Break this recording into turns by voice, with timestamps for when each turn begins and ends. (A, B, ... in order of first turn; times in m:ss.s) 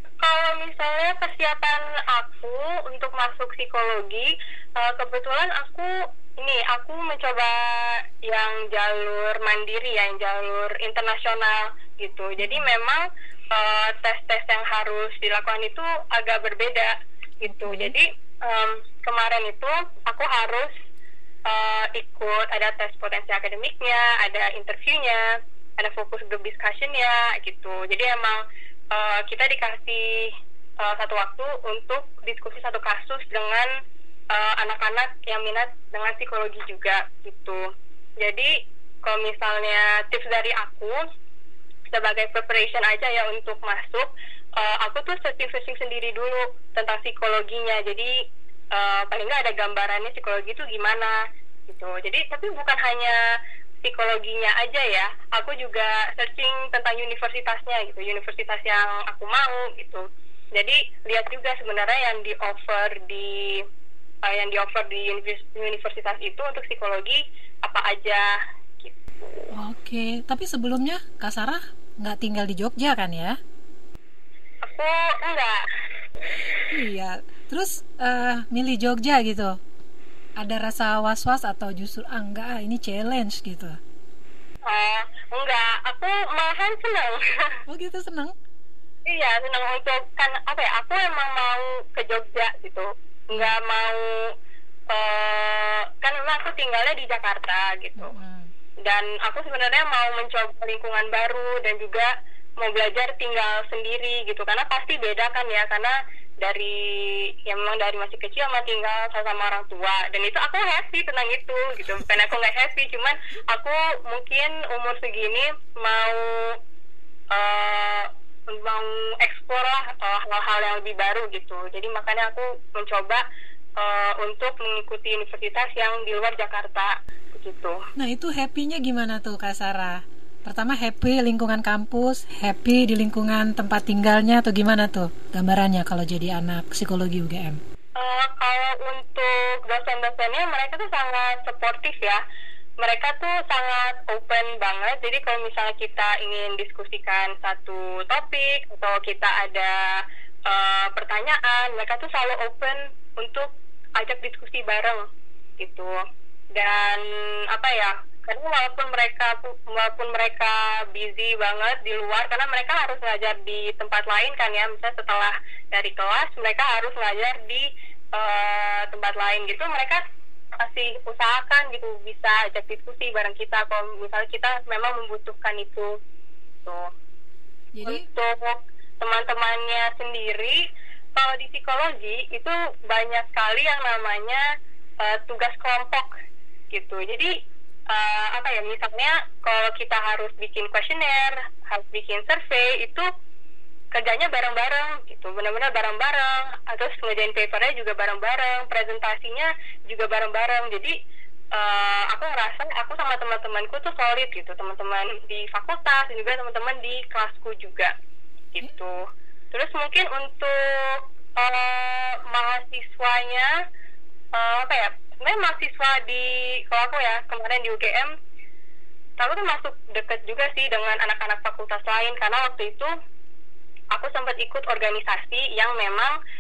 0:00.2-0:20.7 A
0:12.4-0:12.7 B
0:17.4-0:18.0 B
0:21.5-0:25.3 A
0:25.8-0:28.4 A
0:28.9-0:33.7 A
0:34.3-0:37.6 A
0:38.2-0:38.5 A
0:39.0-0:41.0 A
0:41.9-0:48.1 A
0:48.7-0:51.1 A
0:51.7-0:53.2 A
0:53.8-1:03.6 A
1:04.3-1:08.3 A
1:08.8-1:09.4 A
1:09.5-1:13.4 B
1:14.6-1:15.6 A
1:16.7-1:19.6 B
1:20.4-1:23.8 B
1:24.7-1:27.6 A
1:27.7-1:28.3 B
1:29.1-1:34.0 A
1:34.9-1:38.1 A
1:38.0-1:38.5 B
1:38.9-1:56.6 A
1:57.3-2:03.2 A
2:03.8-2:07.8 A
2:08.0-2:17.6 B
2:18.0-2:22.2 A
2:22.8-2:35.0 A
2:35.6-2:36.0 A
2:36.5-2:50.0 A
2:50.6-2:56.0 A
2:56.6-2:56.9 A
2:57.7-2:58.0 B
2:57.8-3:00.6 A
3:01.2-3:04.4 A
3:05.0-3:06.1 A
3:06.7-3:07.3 A
3:07.9-3:13.1 A
3:13.9-3:20.9 A
3:21.5-3:27.9 A
3:28.5-3:33.5 A
3:34.3-3:38.1 A
3:39.2-3:42.9 A
3:43.9-3:46.1 A